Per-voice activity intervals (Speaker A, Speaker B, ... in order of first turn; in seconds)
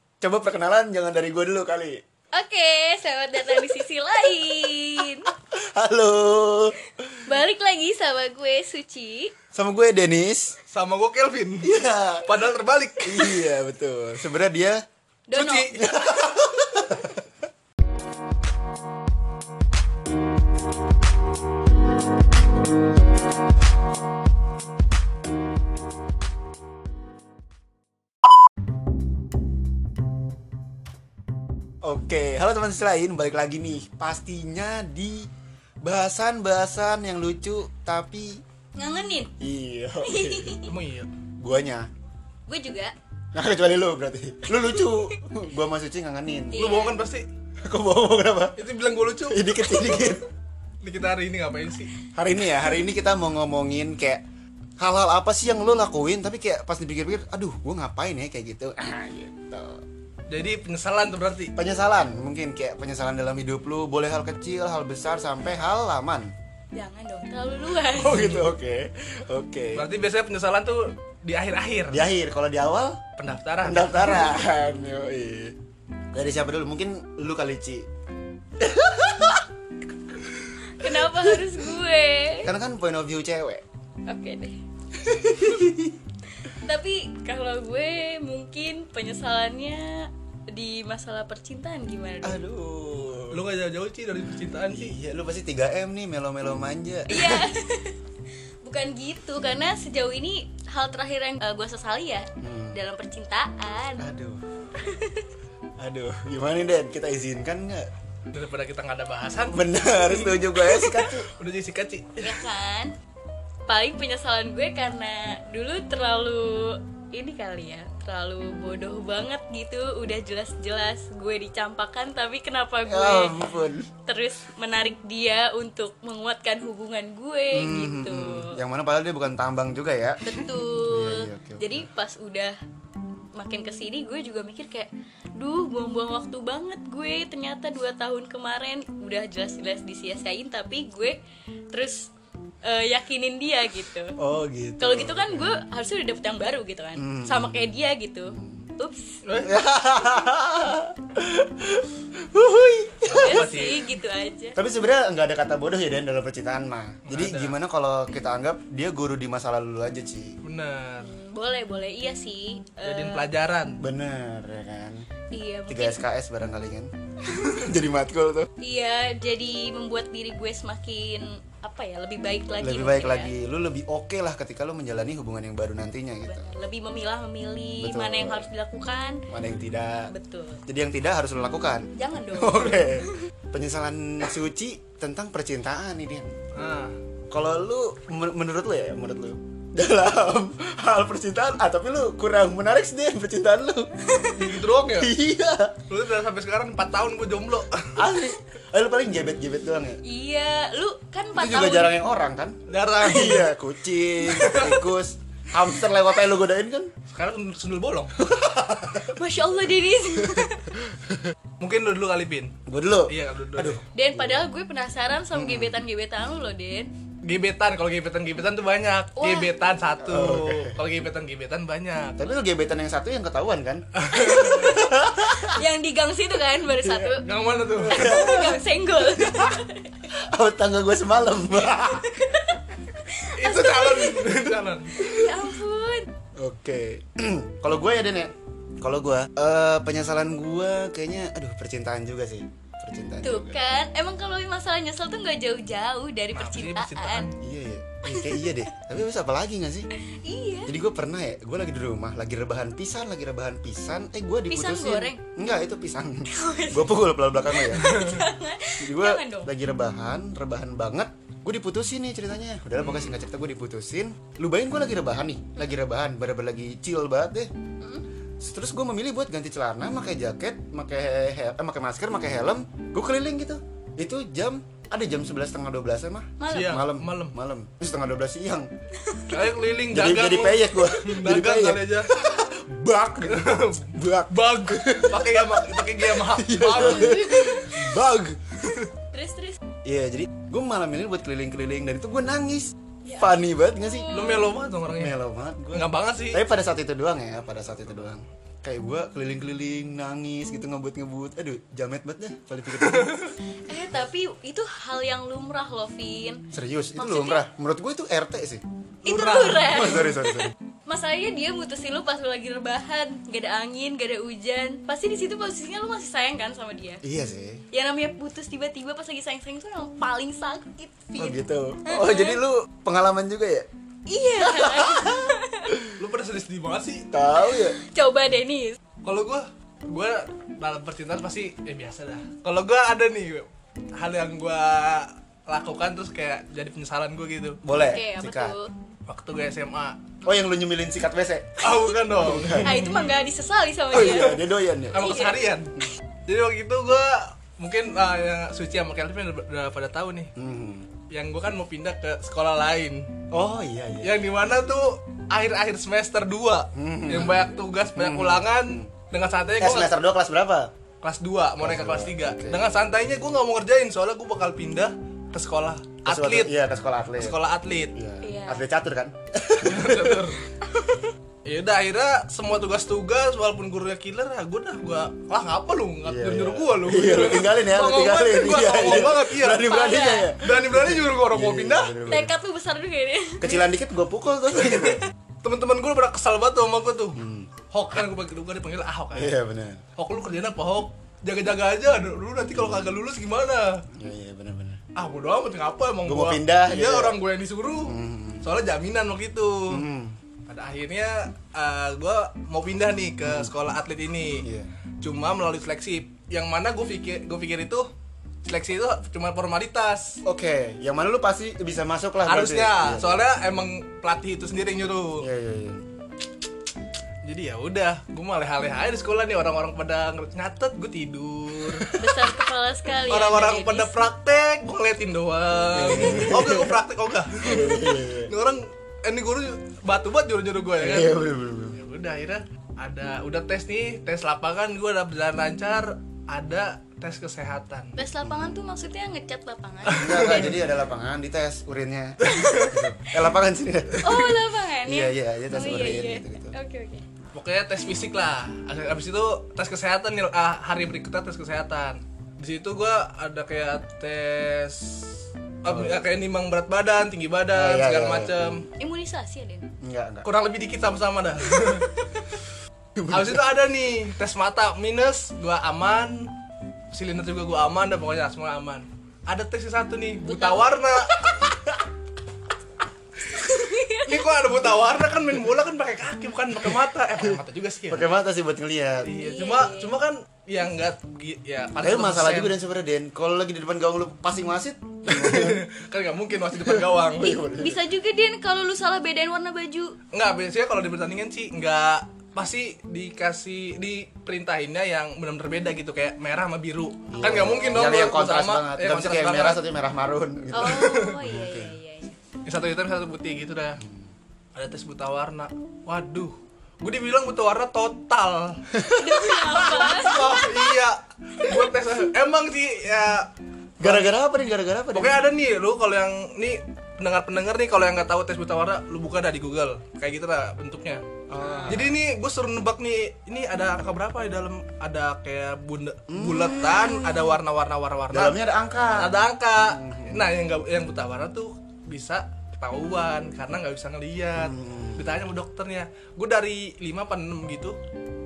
Speaker A: 0.2-2.0, 5.3-6.8, 9.5-10.6, 11.6-12.3, 13.0-14.8, 15.5-17.2, 31.8-35.3, 35.8-38.4, 39.4-40.6, 41.4-41.9, 43.3-46.6, 47.6-48.6, 49.3-50.2, 52.1-54.2, 54.8-59.8, 61.5-66.3, 67.9-69.9, 71.9-73.0, 73.6-75.5, 76.1-77.9, 78.6-79.5, 80.4-81.6, 82.4-83.6, 85.0-86.0, 92.2-93.4, 94.7-97.5, 102.4-102.8, 104.0-104.4, 105.8-107.9, 109.5-111.3, 122.8-123.9, 127.5-131.8, 144.2-145.6, 147.0-147.6, 148.3-148.7, 149.4-153.6, 154.6-160.4, 163.8-165.1, 165.7-168.5, 172.6-176.5, 177.8-178.5, 179.3-180.1, 180.7-186.3, 187.3-193.9, 194.9-195.8, 197.9-200.0, 201.4-206.9, 208.2-209.1, 212.7-214.4, 215.3-215.8, 220.0-220.8, 222.2-225.6, 226.8-227.2, 227.8-228.6, 229.2-229.5, 230.1-232.1, 236.4-243.6, 247.4-249.9, 250.7-258.1, 258.8-267.5, 268.4-278.7, 279.9-285.7, 286.2-288.4, 289.8-294.1, 294.9-303.2, 306.5-308.6, 309.6-310.5, 317.0-317.6, 321.1-323.7, 324.4-325.9, 327.1-327.8, 337.6-338.6, 340.2-341.6, 342.1-342.7, 343.9-345.1, 350.4-350.9, 353.3-354.1, 356.7-358.9, 359.6-360.7, 361.6-362.6, 366.0-367.3, 367.9-370.3, 376.0-382.3, 383.4-385.0, 387.1-387.5, 389.1-389.8, 393.9-394.8, 396.0-397.2, 397.9-398.5, 399.7-400.1, 403.2-403.5, 404.4-404.7, 410.2-413.2, 415.2-415.9, 425.7-426.7, 427.4-428.3, 430.8-431.8, 438.2-438.5, 439.9-444.2, 444.9-446.5, 455.7-456.0, 457.5-458.6, 459.8-460.2, 477.9-479.1, 481.8-485.6, 486.6-487.8, 497.1-501.8, 503.8-504.1, 508.7-510.4, 513.8-515.2, 521.3-522.0, 526.1-527.0, 528.1-530.3, 534.4-535.2
Speaker B: 2.3-5.3, 7.2-9.3, 15.3-15.8, 38.8-39.3, 40.0-40.7, 42.5-42.9, 44.8-45.2, 46.5-47.0, 66.7-68.4, 80.7-82.5, 84.1-84.6, 85.3-85.6, 86.4-92.4, 97.1-98.0, 98.6-104.1, 104.8-105.3, 112.2-112.9, 113.7-123.4, 124.0-128.6, 130.2-132.6, 133.3-141.2, 141.7-142.1, 142.6-144.2, 144.8-149.2, 153.1-154.6, 161.0-163.3, 165.3-166.0, 168.6-173.3, 176.2-179.2, 180.1-180.6, 181.9-183.1, 194.1-194.5, 200.0-201.9, 209.0-210.8, 213.9-216.9, 219.2-219.5, 224.1-227.3, 227.9-230.0, 231.7-236.1, 243.2-247.3, 248.1-248.6, 250.1-250.7, 254.5-255.4, 256.3-257.0, 257.5-259.5, 267.8-268.0, 276.4-276.8, 279.0-279.5, 289.1-289.6, 293.0-294.6, 303.7-306.4, 306.9-307.4, 309.0-317.0, 317.7-322.4, 324.1-325.8, 327.3-328.8, 337.7-338.7, 342.6-344.4, 344.9-345.5, 368.2-368.6, 379.5-380.3, 382.1-383.6, 421.9-423.9, 426.0-426.5, 438.0-440.5, 444.0-447.0, 458.8-459.7, 470.2-470.8, 473.3-474.3, 479.2-479.9, 487.6-490.0, 500.5-502.2, 508.9-510.7
Speaker C: 10.7-11.7, 12.2-13.5, 15.3-15.8, 40.6-41.1, 46.5-47.3, 48.6-50.1, 50.8-51.9, 60.3-61.5, 68.1-68.5, 69.7-72.0, 73.2-74.3, 93.3-94.9, 108.3-112.4, 149.2-149.6, 153.1-153.8, 157.1-157.6, 160.4-161.1, 162.8-163.8, 186.5-186.9, 194.3-195.1, 195.9-198.1, 202.7-203.5, 204.2-204.8, 207.1-208.2, 211.6-212.5, 213.1-213.8, 217.2-222.2, 223.9-224.7, 227.2-228.1, 233.3-235.1, 246.3-247.3, 257.8-258.2, 262.8-263.2, 276.5-277.4, 279.3-282.1, 283.2-287.8, 294.1-295.1, 295.7-296.4, 302.8-303.2, 309.0-310.0, 325.9-327.1, 329.0-337.6, 339.1-340.0, 341.6-343.1, 344.0-344.3, 344.9-345.7, 346.2-350.3, 351.1-353.1, 354.0-359.9, 361.0-366.5, 367.2-367.9, 369.6-370.4, 371.4-379.7, 380.4-382.0, 384.6-387.2, 387.7-389.3, 389.9-393.8, 394.9-399.8, 400.5-404.4, 405.0-407.9, 408.4-410.2, 412.2-415.3, 417.2-421.9, 423.1-431.2, 431.7-438.0, 439.9-440.5, 442.2-442.7, 447.3-458.6, 460.2-461.9, 463.1-466.3, 466.9-471.2, 474.0-478.1, 479.0-482.5, 485.1-487.4, 490.1-499.6, 500.6-501.2, 502.4-503.8, 504.5-508.7, 509.7-513.3, 513.8-514.1, 514.9-528.4, 529.0-537.8